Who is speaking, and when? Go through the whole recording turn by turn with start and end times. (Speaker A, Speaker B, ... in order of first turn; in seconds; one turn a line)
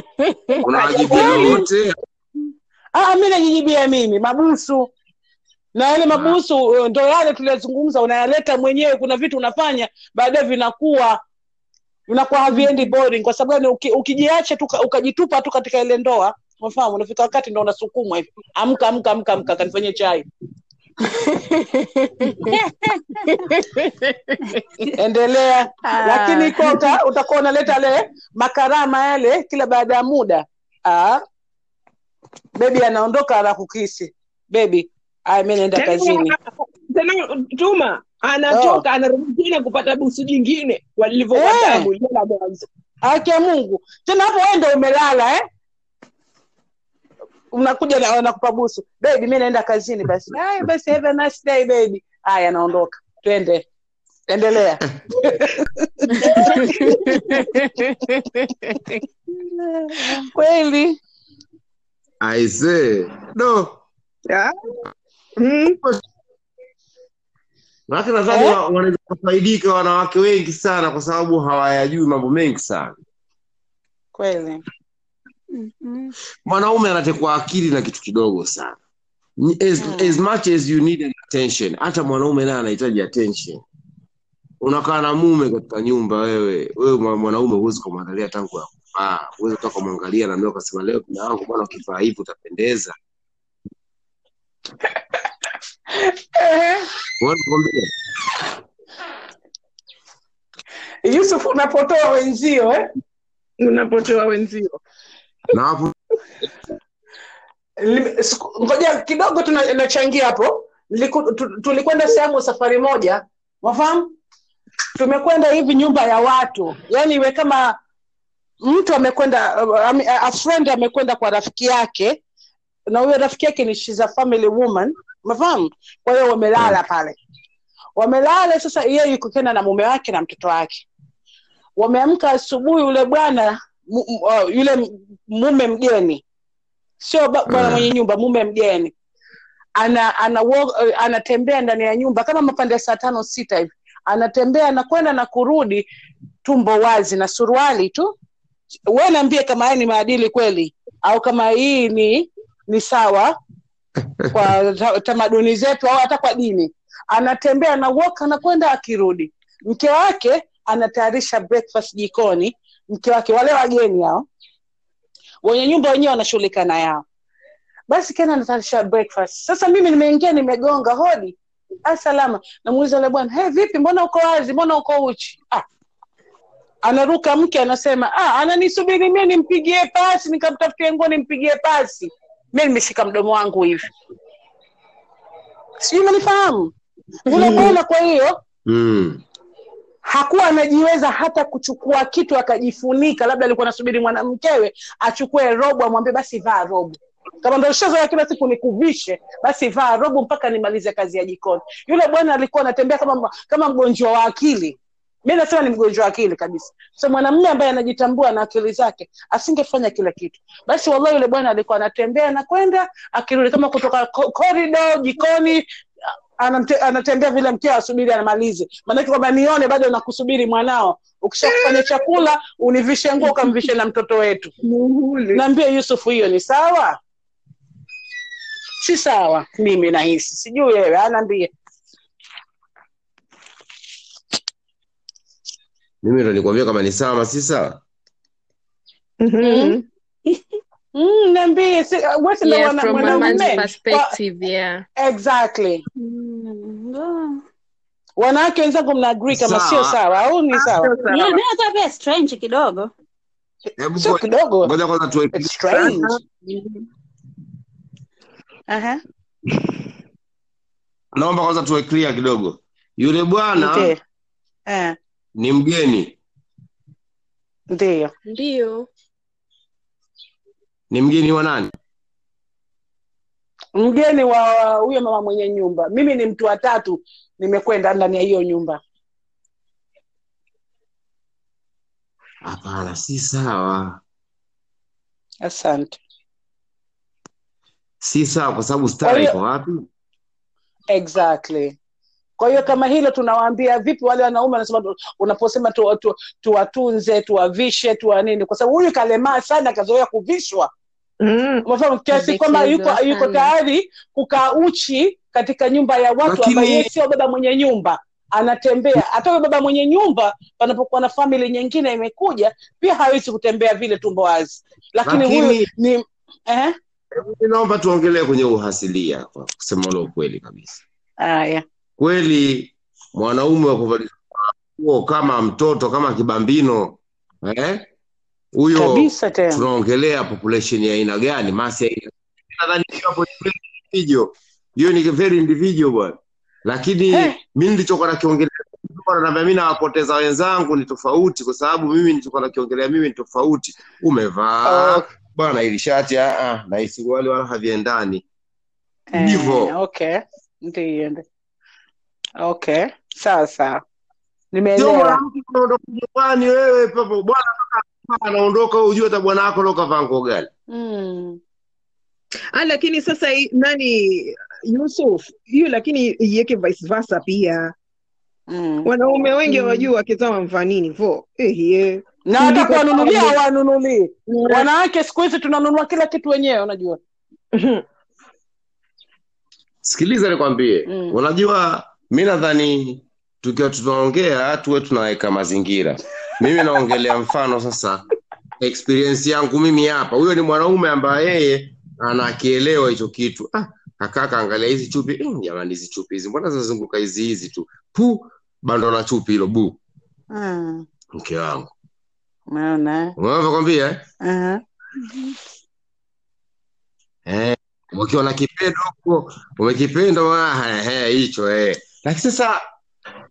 Speaker A: 0.5-1.7
Speaker B: 0.6-2.0
Speaker C: 1.1-1.6
Speaker C: 2.9-4.9
Speaker C: 5.7-11.2
Speaker B: 6.1-6.4
Speaker C: 12.1-20.2
Speaker D: 22.4-23.2
Speaker C: 24.9-31.2
Speaker D: 25.9-26.8
Speaker C: 32.5-36.3
Speaker A: 35.7-42.6
Speaker C: 38.5-38.8
Speaker C: 41.3-41.9
Speaker C: 43.0-45.4
Speaker C: 47.5-53.6
Speaker C: 54.3-57.5
Speaker A: 56.3-58.1
Speaker C: 59.9-61.0
Speaker B: 62.2-63.8
Speaker A: 64.3-64.8
Speaker A: 65.4-65.8
Speaker B: 67.9-73.0
Speaker C: 74.1-74.6
Speaker D: 75.5-76.1
Speaker B: 76.5-78.8
Speaker B: 79.4-83.6
Speaker C: 79.8-80.2
Speaker B: 84.6-92.9
Speaker C: 96.0-96.9
Speaker B: 97.2-97.9
Speaker C: 101.0-102.9
Speaker A: 103.6-104.8
Speaker B: 105.5-105.9
Speaker C: 107.8-114.1
Speaker C: 114.9-117.8
Speaker C: 118.6-122.2
Speaker C: 122.9-127.2
Speaker C: 128.0-130.8
Speaker C: 131.8-136.2
Speaker C: 137.0-138.9
Speaker B: 137.5-137.9
Speaker C: 139.8-145.8
Speaker C: 146.4-148.1
Speaker C: 148.9-153.4
Speaker C: 154.3-164.3
Speaker C: 165.4-167.0
Speaker C: 167.9-175.6
Speaker C: 176.8-183.9
Speaker C: 185.8-186.7
Speaker C: 187.3-188.4
Speaker A: 187.3-187.7
Speaker B: 188.7-189.2
Speaker C: 190.1-215.7
Speaker C: 216.4-224.5
Speaker A: 221.4-222.2
Speaker A: 224.6-225.4
Speaker C: 225.3-227.0
Speaker C: 228.8-231.5
Speaker B: 236.0-237.8
Speaker A: 239.2-239.8
Speaker D: 240.3-240.6
Speaker C: 240.9-244.1
Speaker E: 242.4-244.8
Speaker A: 242.9-243.6
Speaker C: 244.9-245.8
Speaker D: 246.0-247.4
Speaker C: 248.2-250.9
Speaker B: 249.3-250.0
Speaker A: 250.5-251.4
Speaker D: 251.0-252.9
Speaker B: 253.8-256.0
Speaker C: 254.0-254.7
Speaker C: 255.3-256.1
Speaker A: 255.8-256.9
Speaker C: 258.7-259.0
Speaker B: 261.1-263.9
Speaker C: 263.6-264.0
Speaker C: 264.7-264.9
Speaker B: 265.4-266.1
Speaker C: 267.7-268.1
Speaker E: 268.2-268.9
Speaker B: 270.9-271.7
Speaker C: 273.8-278.8
Speaker B: 282.4-284.0
Speaker C: 285.4-286.0
Speaker B: 288.0-289.8
Speaker C: 289.0-289.4
Speaker C: 290.9-291.8
Speaker C: 292.4-300.7
Speaker A: 301.2-301.6
Speaker C: 301.6-316.7
Speaker E: 302.1-303.5
Speaker B: 306.2-306.9
Speaker B: 315.1-315.7
Speaker B: 317.1-320.8
Speaker C: 321.2-321.6
Speaker B: 322.0-327.8
Speaker B: 328.5-348.2
Speaker C: 328.7-329.6
Speaker C: 337.1-337.4
Speaker C: 344.6-345.1
Speaker C: 349.1-351.2
Speaker B: 349.1-349.7
Speaker C: 352.4-353.8
Speaker C: 354.5-355.2
Speaker B: 354.8-360.5
Speaker C: 360.7-361.4
Speaker A: 362.5-367.7
Speaker C: 368.5-368.9
Speaker A: 368.8-373.4
Speaker C: 369.5-369.8
Speaker C: 372.3-377.0
Speaker A: 374.3-374.7
Speaker A: 377.6-377.8
Speaker B: 379.8-388.0
Speaker C: 380.9-381.2
Speaker B: 388.6-399.8
Speaker C: 400.3-400.9
Speaker B: 401.1-401.7
Speaker C: 402.5-403.1
Speaker B: 403.2-404.0
Speaker C: 404.2-404.6
Speaker B: 407.3-412.6